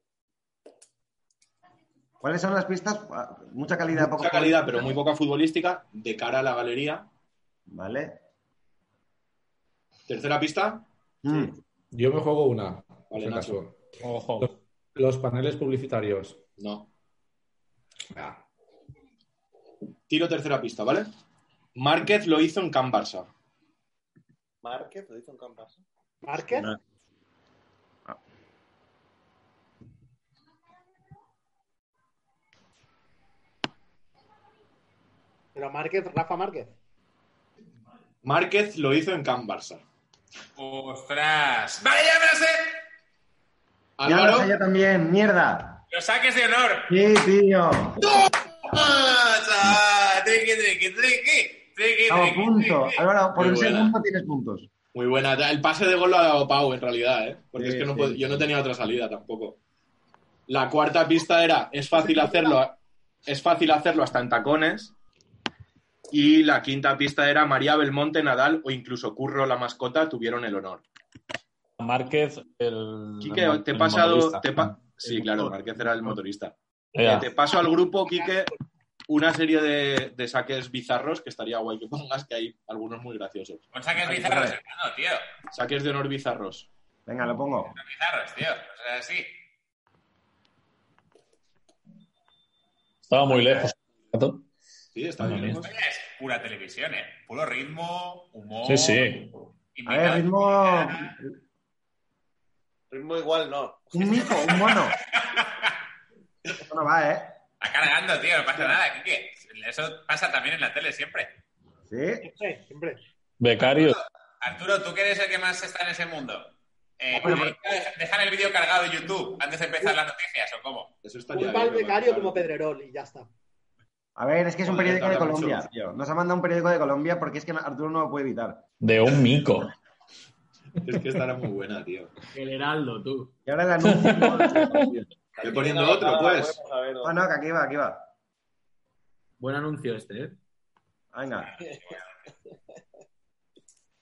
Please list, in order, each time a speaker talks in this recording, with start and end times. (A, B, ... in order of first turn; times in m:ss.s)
0:02.2-0:04.9 A
0:04.0-0:07.0 B
0:07.7-0:08.2 A
0:10.1-0:10.8 B
0:11.2-0:11.6 A
0:11.9-0:16.4 C
0:13.1-0:13.6 B
0:14.0-0:14.5 D
0:16.6-0:16.9 B
0:18.1-0:18.4 C
0:20.1-0:21.1 B
0:21.7-0:23.3 B
0:24.6-0:25.8 E
0:26.2-0:26.7 F
0:35.5-0:36.7 F
0:38.2-0:39.8 B
0:40.6-0:42.8 G
0:44.0-0:44.5 B
0:44.0-0:45.8 A
0:45.9-0:46.9 G
0:46.9-0:48.0 A
0:48.6-0:53.0 G
0:52.1-0:54.7 A
0:53.4-0:53.9 B
0:54.9-0:59.6 B
0:57.6-0:58.2 A
1:00.5-1:04.9 B
1:06.1-1:10.8 B
1:11.8-1:14.9 D
1:13.2-1:18.5 B
1:16.9-1:17.3 D
1:19.1-1:23.6 B
1:23.7-1:25.2 G
1:24.0-1:24.6 A
1:25.5-1:26.7 B
1:27.0-1:27.7 A
1:27.8-1:29.3 G
1:33.1-1:34.4 D
1:34.9-1:35.7 B
1:35.2-1:35.6 D
1:35.6-1:39.1 G
1:38.6-1:39.3 D
1:39.8-1:41.1 G
1:39.8-1:41.4 A
1:42.9-1:44.3 E
1:43.9-1:45.0 A
1:44.5-1:45.7 G
1:46.5-1:47.4 A
1:47.6-1:51.3 G
1:51.9-1:52.3 A
1:52.2-1:53.0 F
1:53.4-1:54.0 D
1:53.7-2:00.9 G
1:57.1-1:57.6 A
2:01.0-2:02.4 B
2:01.3-2:03.3 F
2:04.2-2:08.6 A
2:04.6-2:05.7 B
2:08.8-2:09.7 D
2:10.8-2:12.1 B
2:12.3-2:13.3 H
2:13.4-2:15.1 A
2:13.8-2:14.8 D
2:15.4-2:17.2 E
2:15.4-2:16.6 B
2:17.0-2:18.1 A
2:19.4-2:20.4 H
2:21.1-2:21.6 A